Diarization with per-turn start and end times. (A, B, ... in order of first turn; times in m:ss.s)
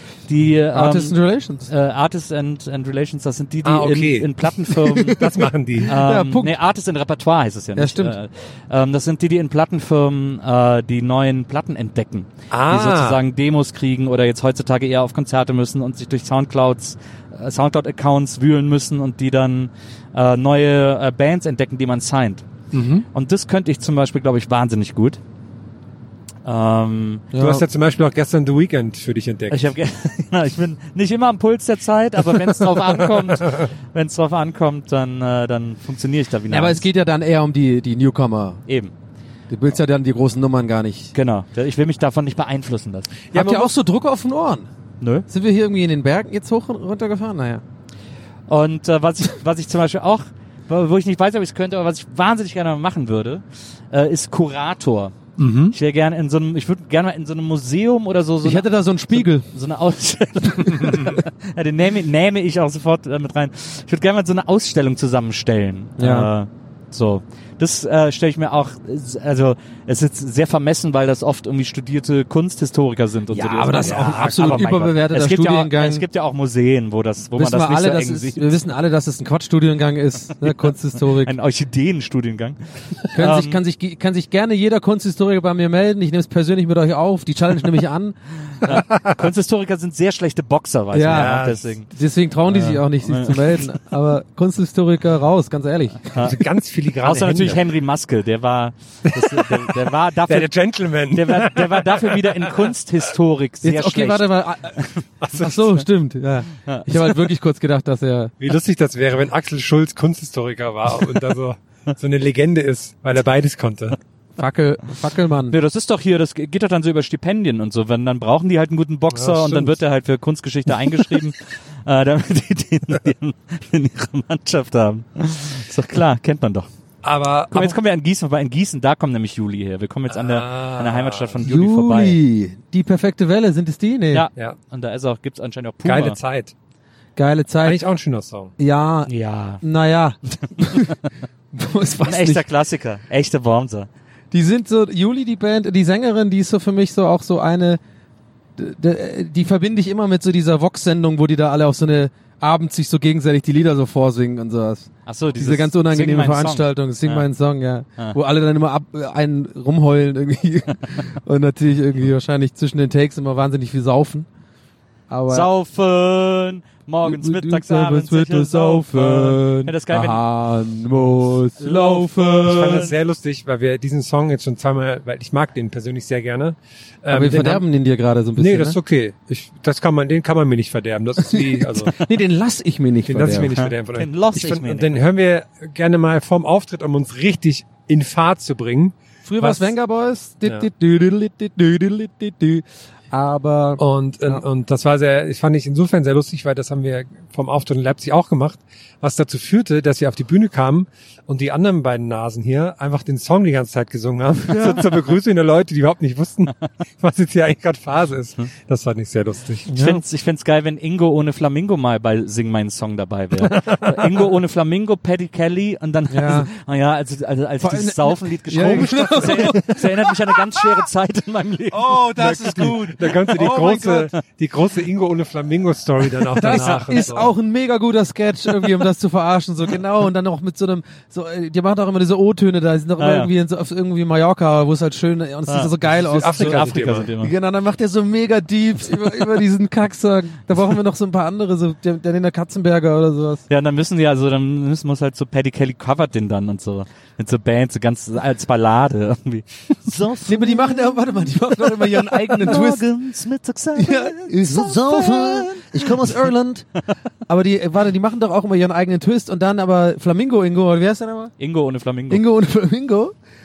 0:00.3-0:05.2 A
0:00.7-0:01.7 B
0:03.6-0:04.5 C
0:04.9-0:06.5 B
0:05.1-0:05.9 C
0:05.8-0:22.4 A
0:07.8-0:08.2 B
0:12.5-0:13.2 C
0:22.7-0:23.0 C
0:23.1-0:25.2 A
0:26.4-0:27.3 A
0:27.3-0:27.6 B
0:27.4-0:29.7 C
0:29.5-0:36.8 A
0:36.5-0:38.6 B
0:38.7-0:38.9 A
0:39.5-0:41.1 B
0:41.1-0:43.1 A
0:43.3-0:43.7 C
0:43.3-0:44.7 B
0:45.0-0:45.2 A
0:45.3-0:47.6 B
0:48.5-0:55.1 A
0:55.4-0:55.8 C
0:55.7-1:18.6 A
0:58.4-0:59.5 B
1:06.0-1:06.3 B
1:13.3-1:16.0 B
1:13.8-1:14.1 C
1:17.3-1:21.3 B
1:20.4-1:23.6 A
1:23.1-1:28.2 B
1:28.6-1:31.9 A
1:28.7-1:29.1 C
1:30.9-1:36.1 B
1:31.1-1:31.7 C
1:32.5-1:33.6 A
1:36.1-1:36.4 A
1:36.2-1:37.6 C
1:37.0-1:40.5 A
1:39.1-1:39.7 C
1:40.3-1:42.7 C
1:41.1-1:44.3 A
1:43.6-1:44.8 B
1:45.2-1:45.7 C
1:45.3-1:48.3 B
1:48.4-1:54.0 C
1:54.4-1:55.6 B
1:55.5-2:06.7 A
1:59.1-1:59.8 C
2:07.0-2:07.8 C
2:07.5-2:12.2 A
2:10.1-2:11.4 C
2:11.4-2:14.3 B
2:14.1-2:16.2 A
2:15.8-2:16.5 C
2:17.2-2:17.8 B
2:17.6-2:18.5 C
2:18.6-2:21.0 B
2:19.1-2:19.6 A
2:21.5-2:22.4 B
2:22.0-2:23.9 A
2:24.3-2:27.8 B
2:28.6-2:44.3 B
2:35.0-2:37.3 A
2:45.1-2:45.5 B
2:45.3-2:50.2 A
2:47.0-2:52.7 B
2:51.6-2:52.9 A
2:52.4-2:57.6 C
2:57.1-2:58.8 B
2:58.4-3:01.9 C
3:01.2-3:03.5 B
3:03.1-3:09.7 C
3:03.5-3:04.9 A
3:09.2-3:14.4 B
3:13.8-3:29.7 C
3:24.5-3:24.8 B
3:29.7-3:30.0 B
3:29.7-3:42.1 A
3:33.4-3:34.2 C
3:36.1-3:36.5 B
3:37.6-3:40.5 B
3:38.6-3:39.6 C
3:41.7-3:44.1 B
3:42.1-3:47.3 C
3:46.4-4:03.4 B
3:46.4-3:47.1 A
3:53.0-3:53.3 A
3:55.5-3:57.3 A
3:56.0-3:57.1 C
4:03.5-4:16.2 A
4:10.2-4:12.8 B
4:13.8-4:16.7 B
4:17.3-4:21.3 B
4:21.4-4:22.2 A
4:22.1-4:23.1 B